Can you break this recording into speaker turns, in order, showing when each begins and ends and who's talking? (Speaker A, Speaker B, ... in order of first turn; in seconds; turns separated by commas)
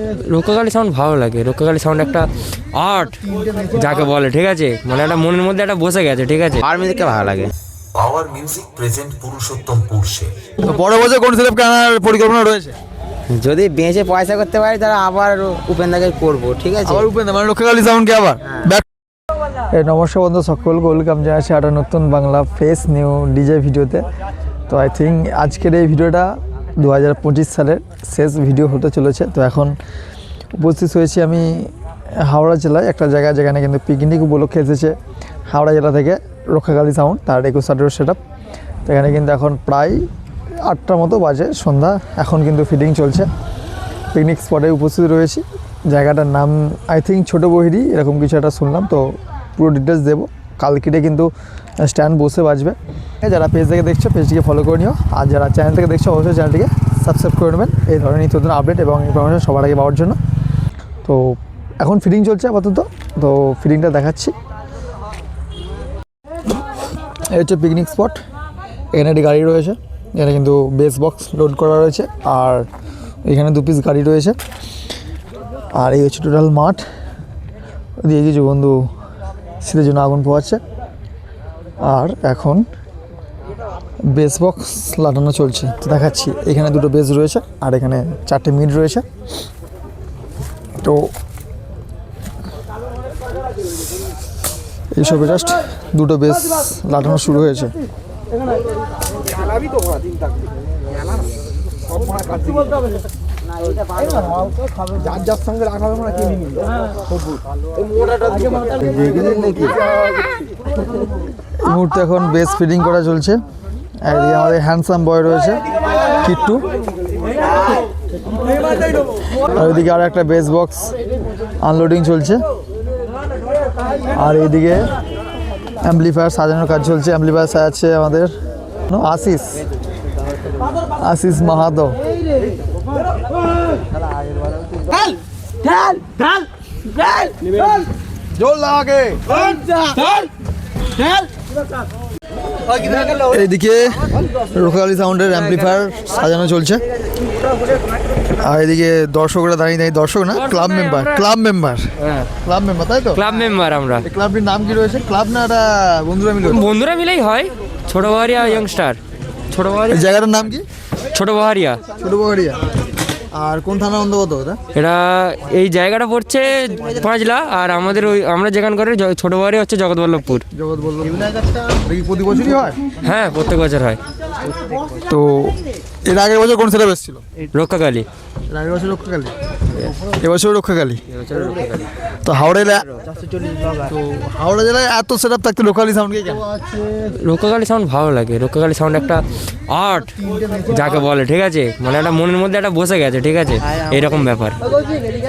Speaker A: 0.3-6.6, Speaker B: 6.6-7.5, Speaker C: 7.9-10.3, Speaker D: 10.6-12.8, Speaker B: 13.3-17.1, Speaker D: 16.9-18.8, Speaker D: 19.7-24.1, Speaker D: 24.7-29.7, Speaker D: 30.6-35.0, Speaker D: 35.5-38.2, Speaker D: 38.9-40.0, Speaker D: 40.6-43.3, Speaker D: 44.1-51.3, Speaker D: 51.8-60.2, Speaker D: 61.0-64.3, Speaker D: 67.3-68.2, Speaker D: 68.9-72.6, Speaker D: 73.2-74.4, Speaker D: 75.7-76.8, Speaker D: 78.0-78.8, Speaker D: 79.6-80.6, Speaker D: 81.8-82.7, Speaker D: 84.1-89.0, Speaker D: 90.8-91.1, Speaker D: 94.9-97.7, Speaker D: 111.6-113.4, Speaker D: 114.0-115.6, Speaker D: 116.2-116.6, Speaker D: 119.4-120.9, Speaker D: 121.6-122.4, Speaker D: 124.1-124.8, Speaker D: 125.8-128.3, Speaker D: 128.9-129.6, Speaker D: 131.0-132.0, Speaker D: 138.3-139.2, Speaker D: 143.1-146.8, Speaker D: 148.4-151.9, Speaker A: 150.3-151.2, Speaker D: 152.4-153.2, Speaker A: 153.1-154.0, Speaker D: 154.0-156.7, Speaker A: 156.5-159.0, Speaker A: 159.5-160.1, Speaker D: 159.9-160.6, Speaker A: 161.1-161.8, Speaker D: 162.0-162.6, Speaker D: 163.3-164.6, Speaker A: 164.7-170.4, Speaker D: 170.5-172.8, Speaker A: 173.0-174.0, Speaker D: 175.1-177.2, Speaker A: 177.5-178.1, Speaker D: 178.5-179.3, Speaker D: 180.0-181.0, Speaker A: 181.1-181.9, Speaker D: 182.2-182.9, Speaker D: 183.8-186.4, Speaker A: 187.1-194.6